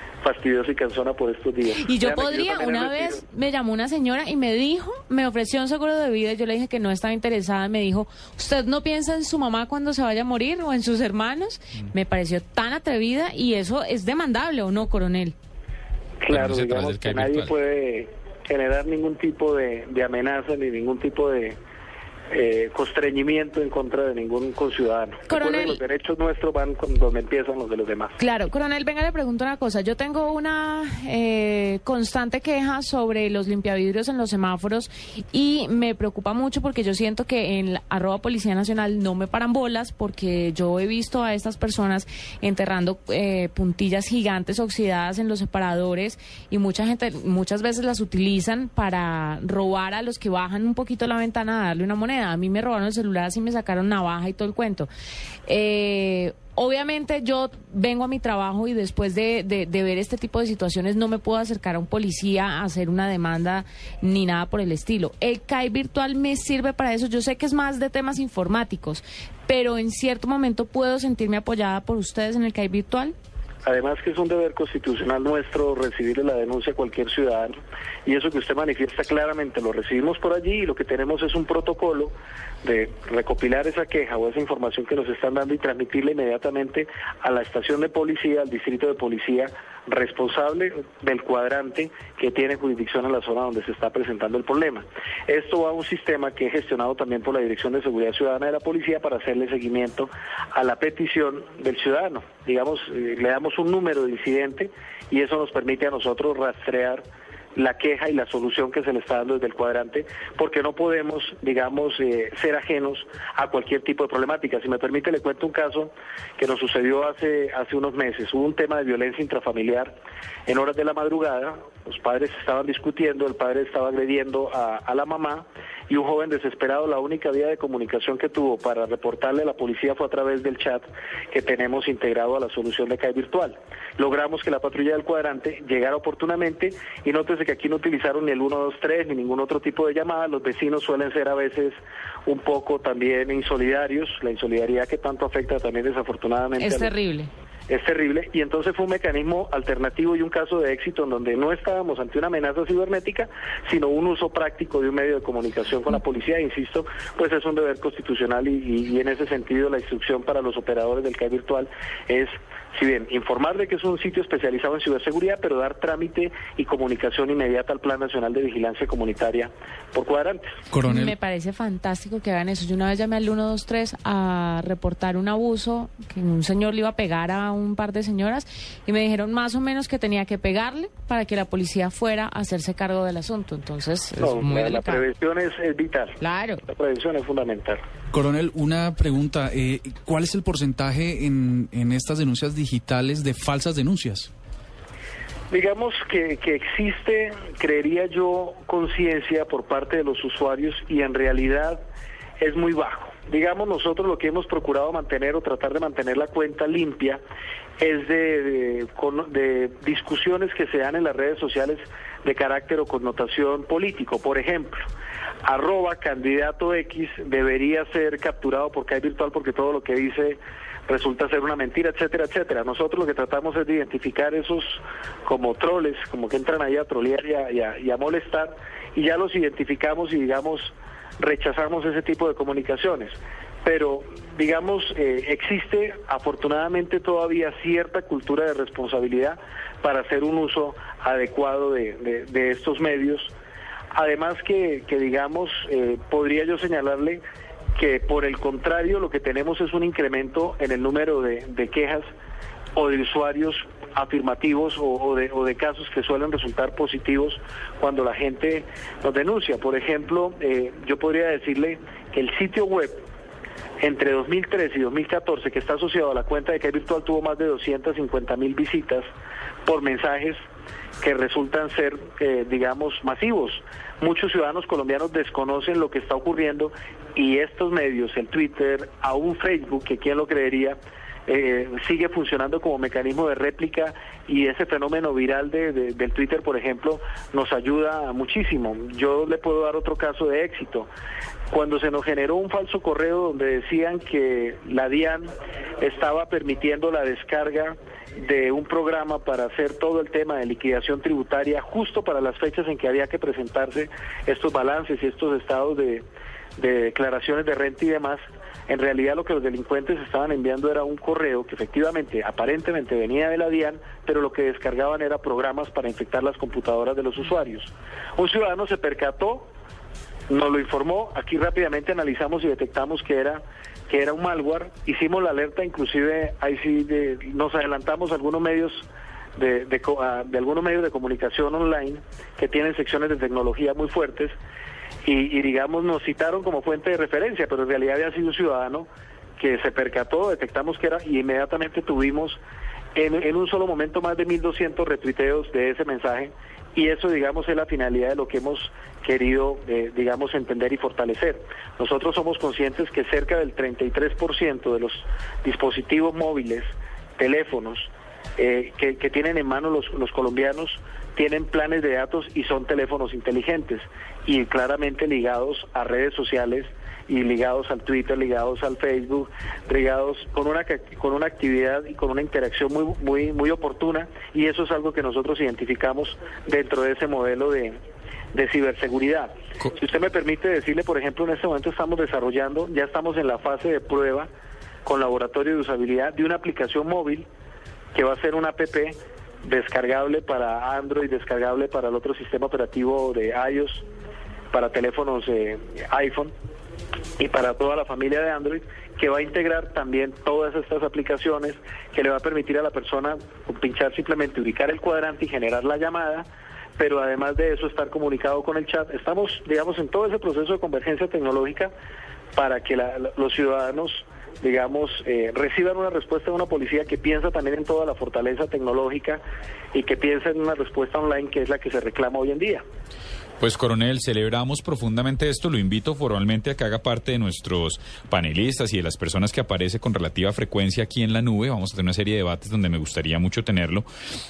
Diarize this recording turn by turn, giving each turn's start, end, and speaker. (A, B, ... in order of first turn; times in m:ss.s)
0:00.2-0:03.2 A
0:01.8-0:15.4 B
0:16.2-0:21.6 A
0:16.3-0:17.5 C
0:22.3-0:28.2 A
0:25.3-0:25.8 B
0:28.2-0:54.9 B
0:55.5-1:13.2 B
1:13.6-1:47.0 A
1:47.6-2:00.0 A
2:00.5-2:26.9 A
2:26.6-2:27.3 B
2:27.7-2:50.4 A
2:50.7-2:51.2 D
2:50.8-3:05.0 B
3:04.2-3:07.8 A
3:06.2-3:06.6 B
3:08.1-3:14.3 D
3:15.5-3:21.8 A
3:22.4-3:27.2 A
3:27.8-3:34.9 A
3:35.4-4:03.3 A
4:03.9-4:07.2 A
4:07.8-4:12.1 A
4:12.8-4:23.0 A
4:23.8-4:29.1 A
4:29.6-4:30.4 A
4:31.0-4:50.9 A
4:51.5-5:06.0 A
5:06.6-5:19.5 A
5:20.3-5:28.8 A
5:29.4-5:34.4 A
5:35.0-5:38.9 A
5:39.4-5:42.4 A
5:43.0-6:17.8 A
6:18.3-6:24.3 A
6:24.8-6:27.3 A
6:27.9-6:33.8 A
6:34.5-6:36.3 A
6:37.2-6:46.3 A
6:46.8-6:51.7 A
6:52.4-6:59.2 A
6:59.7-7:02.6 A
7:03.4-7:13.9 C